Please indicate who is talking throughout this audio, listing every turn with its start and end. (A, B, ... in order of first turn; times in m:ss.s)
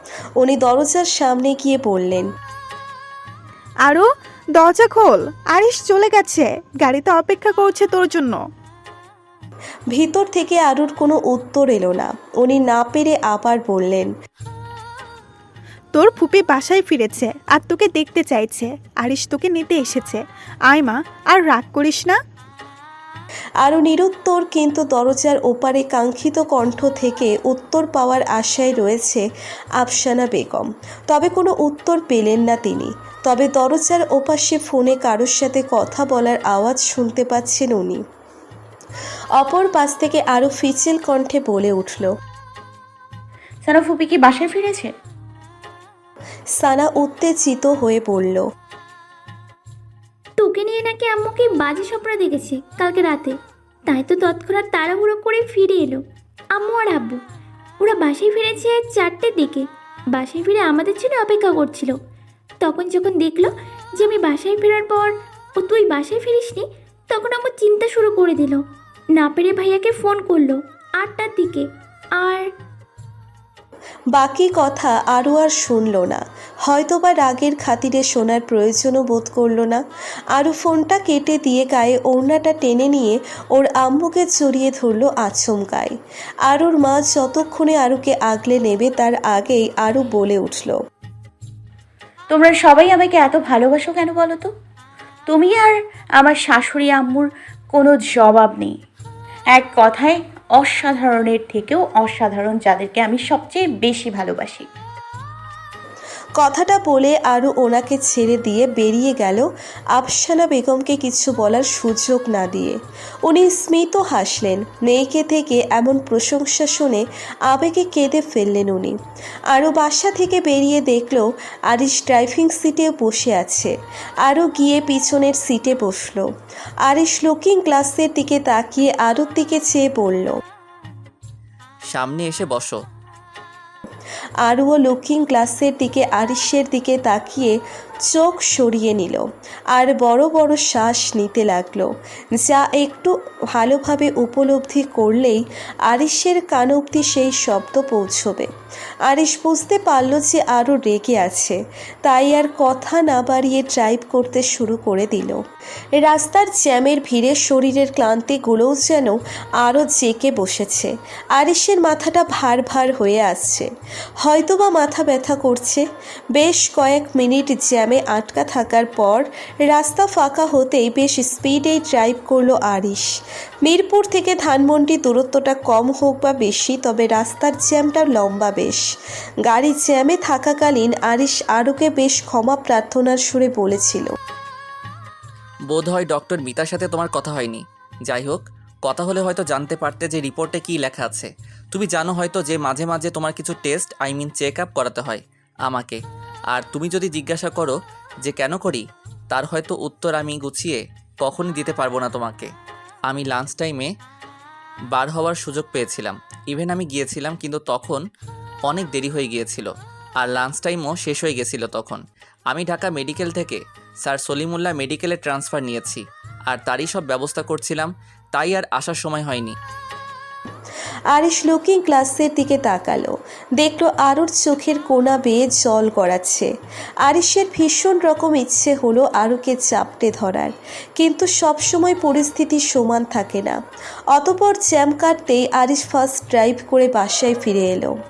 0:00.4-0:02.3 A
0:03.8-0:08.4 B
0:09.9-0:14.1 A
0:15.9-0:22.2 B
0:23.6-0:29.2 A
0:29.8-0:38.0 A
0:39.4-0:42.1 A
0:43.6-0:44.9 C
0:46.6-0:48.4 A
0:50.4-0:53.3 D
0:53.9-0:56.0 D
0:56.6-0:57.2 D
0:57.8-1:02.0 D
1:02.6-1:08.6 D
1:09.2-1:11.7 D
1:12.2-1:12.4 D
1:14.1-1:19.8 A
1:20.4-1:25.9 A
1:26.5-1:30.8 A
1:32.3-1:34.5 C
1:35.3-1:38.7 C
1:39.5-1:44.7 C
1:46.4-1:59.0 A
1:59.5-2:03.7 A
2:04.2-2:06.3 A
2:06.8-2:10.4 A
2:11.9-2:12.8 E
2:14.5-2:17.5 A
2:18.1-2:19.2 A
2:19.7-2:28.5 A
2:29.1-2:35.4 A
2:36.0-2:43.7 A
2:44.2-2:53.1 A
2:53.6-2:58.8 A
2:59.5-3:04.1 A
3:05.7-3:16.0 E
3:16.5-3:22.5 E
3:23.1-3:23.9 E
3:24.9-3:28.0 E
3:28.7-3:39.6 E
3:41.1-3:46.5 A
3:47.0-3:53.6 A
3:54.1-3:57.9 A